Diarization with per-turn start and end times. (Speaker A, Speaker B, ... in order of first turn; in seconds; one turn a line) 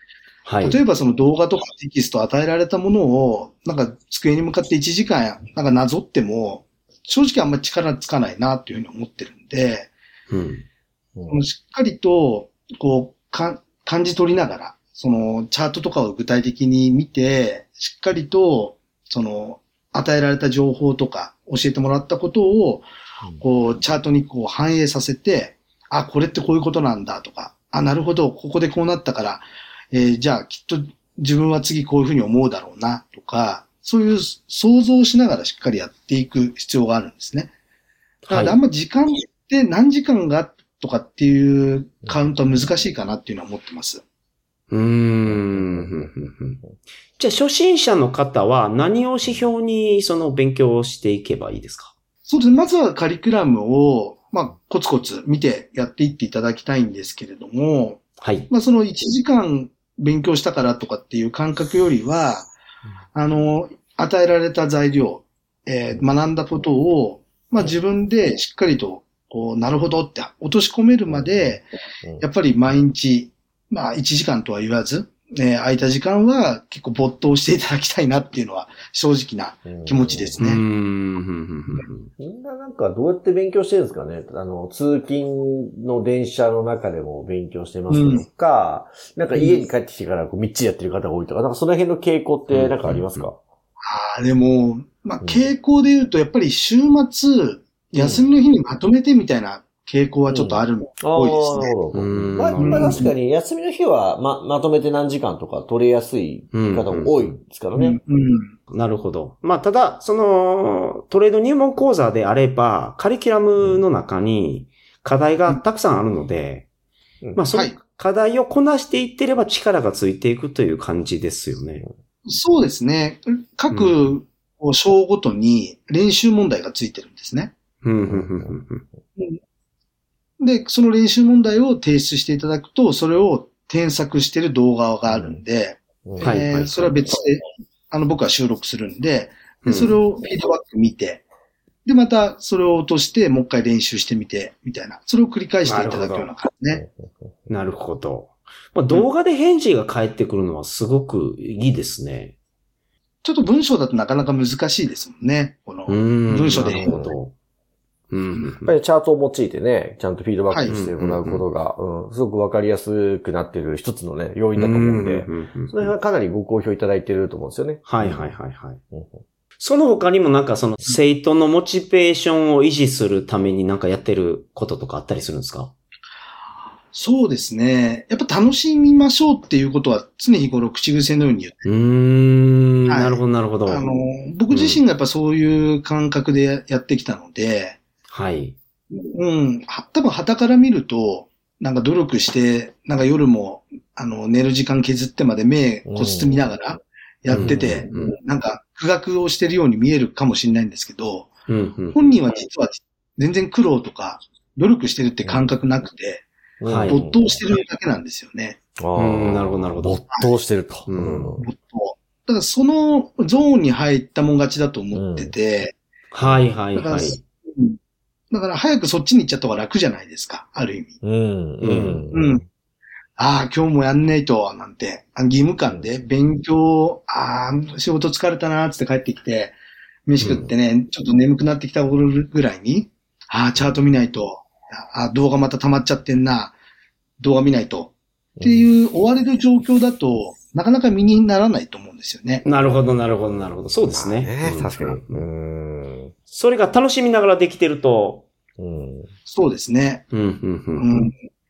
Speaker A: 0.5-0.8
Speaker B: 0.6-9.9
Speaker A: 10.3-10.6
Speaker B: 11.3-22.9
Speaker B: 23.4-37.5
Speaker A: 38.3-38.5
Speaker B: 38.3-44.0
Speaker A: 44.7-46.6
Speaker C: 45.3-46.1
Speaker A: 47.2-51.9
Speaker B: 52.2-62.5
Speaker A: 58.2-58.5
Speaker B: 63.1-71.7
Speaker C: 71.1-71.5
Speaker B: 72.2-80.6
Speaker C: 79.7-80.4
Speaker A: 80.4-82.1
Speaker C: 82.2-93.4
Speaker B: 87.9-88.2
Speaker A: 92.5-93.2
Speaker B: 93.8-101.7
Speaker C: 95.2-95.5
Speaker C: 98.0-98.2
Speaker C: 100.3-108.0
Speaker A: 101.9-103.1
Speaker B: 102.6-103.1
Speaker A: 106.5-107.4
Speaker B: 107.7-108.5
Speaker A: 108.7-116.7
Speaker A: 117.3-121.8
Speaker B: 122.2-127.5
Speaker A: 123.7-124.0
Speaker A: 127.8-128.8
Speaker C: 128.1-128.5
Speaker B: 130.4-141.2
Speaker C: 135.1-135.4
Speaker C: 136.0-136.3
Speaker A: 136.2-136.7
Speaker A: 139.6-139.9
Speaker B: 141.8-146.8
Speaker A: 145.6-146.3
Speaker C: 146.7-147.3
Speaker A: 147.5-152.3
Speaker B: 153.2-156.9
Speaker A: 155.9-157.3
Speaker C: 156.5-157.2
Speaker A: 158.1-158.7
Speaker C: 158.4-168.3
Speaker B: 160.5-160.8
Speaker A: 160.7-161.4
Speaker A: 164.5-165.9
Speaker A: 167.8-168.8
Speaker C: 168.9-169.2
Speaker A: 169.6-175.7
Speaker B: 176.9-181.7
Speaker A: 181.7-183.8
Speaker B: 182.9-187.8
Speaker A: 184.5-184.8
Speaker A: 188.1-188.6
Speaker B: 188.9-201.3
Speaker C: 195.9-196.4
Speaker A: 197.3-198.2
Speaker C: 197.3-197.8
Speaker A: 201.5-202.0
Speaker B: 201.9-206.3
Speaker C: 205.2-205.5
Speaker C: 206.6-207.3
Speaker A: 206.7-207.0
Speaker B: 206.9-208.6
Speaker C: 208.8-211.4
Speaker A: 208.9-210.0
Speaker A: 210.9-211.4
Speaker B: 211.4-215.7
Speaker C: 214.9-215.3
Speaker A: 216.1-217.2
Speaker B: 216.7-217.8
Speaker B: 218.3-221.0
Speaker C: 221.0-222.4
Speaker A: 221.6-222.0
Speaker B: 222.1-222.4
Speaker B: 223.2-229.6
Speaker B: 230.1-236.5
Speaker B: 237.2-242.4
Speaker C: 238.4-238.7
Speaker A: 242.4-245.2
Speaker C: 243.8-246.1
Speaker A: 246.3-248.2
Speaker C: 248.6-249.1
Speaker B: 249.3-250.1
Speaker A: 250.1-250.8
Speaker B: 250.8-251.2